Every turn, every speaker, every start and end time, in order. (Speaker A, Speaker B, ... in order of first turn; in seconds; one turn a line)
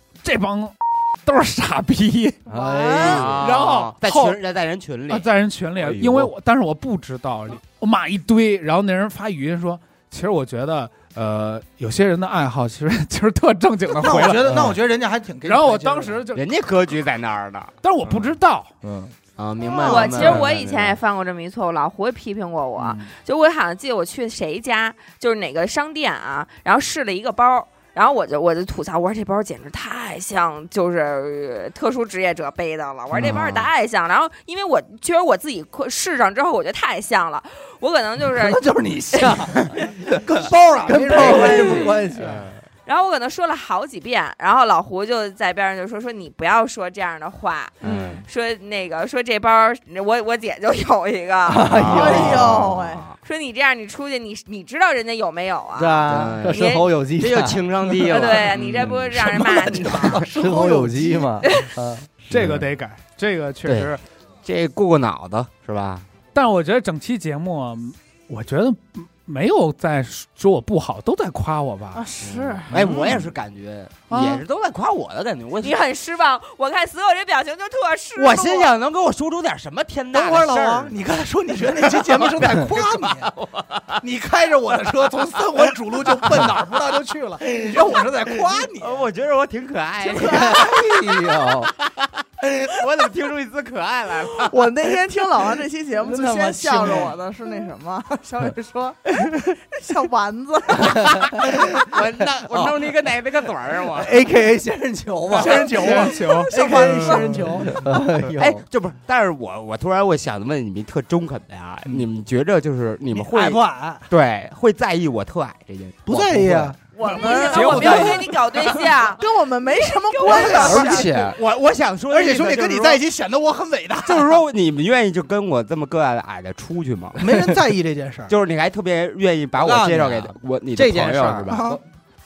Speaker A: 0.2-2.4
Speaker B: 2.5-3.4
Speaker C: 2.5-3.5
Speaker D: 3.0-5.3
Speaker A: 3.2-4.4
Speaker A: 5.1-14.7
Speaker D: 5.8-6.3
Speaker E: 14.0-16.2
Speaker A: 15.4-16.5
Speaker D: 16.3-17.7
Speaker A: 17.8-18.7
Speaker B: 18.8-19.1
Speaker D: 19.4-21.0
Speaker C: 19.6-20.1
Speaker F: 19.8-38.6
Speaker B: 20.2-20.5
Speaker D: 33.1-33.7
Speaker B: 33.1-33.5
Speaker B: 38.2-42.4
Speaker E: 40.3-42.0
Speaker F: 41.2-41.9
Speaker D: 42.2-42.6
Speaker F: 42.9-51.7
Speaker D: 47.8-48.2
Speaker B: 51.5-52.7
Speaker D: 51.7-53.1
Speaker C: 51.9-53.0
Speaker F: 53.2-56.8
Speaker B: 55.8-57.6
Speaker D: 56.1-56.6
Speaker D: 57.2-60.2
Speaker F: 58.1-60.2
Speaker E: 59.3-61.3
Speaker B: 60.3-62.6
Speaker F: 61.4-61.7
Speaker D: 62.3-62.6
Speaker A: 62.3-64.0
Speaker D: 63.6-63.9
Speaker D: 64.4-66.0
Speaker A: 66.3-72.0
Speaker C: 71.9-72.7
Speaker D: 72.2-75.8
Speaker B: 72.7-73.3
Speaker A: 74.1-74.4
Speaker F: 75.6-78.7
Speaker D: 78.2-81.0
Speaker E: 80.1-83.3
Speaker D: 81.6-84.0
Speaker E: 84.0-89.0
Speaker D: 88.8-94.9
Speaker C: 90.0-90.7
Speaker B: 90.2-91.7
Speaker C: 94.4-101.4
Speaker B: 96.0-97.1
Speaker D: 101.5-104.2
Speaker B: 103.9-105.7
Speaker E: 105.4-107.8
Speaker A: 105.4-106.5
Speaker C: 105.4-107.5
Speaker D: 106.8-107.2
Speaker B: 107.1-108.6
Speaker D: 108.3-116.7
Speaker E: 113.1-114.0
Speaker E: 116.1-118.1
Speaker F: 116.9-121.1
Speaker C: 117.0-118.2
Speaker D: 117.5-118.2
Speaker C: 119.2-121.1
Speaker E: 120.3-121.0
Speaker D: 120.5-123.0
Speaker B: 120.6-121.3
Speaker E: 122.1-124.4
Speaker D: 124.0-127.6
Speaker E: 127.2-128.3
Speaker D: 128.3-131.6
Speaker B: 129.6-131.8
Speaker E: 131.5-131.8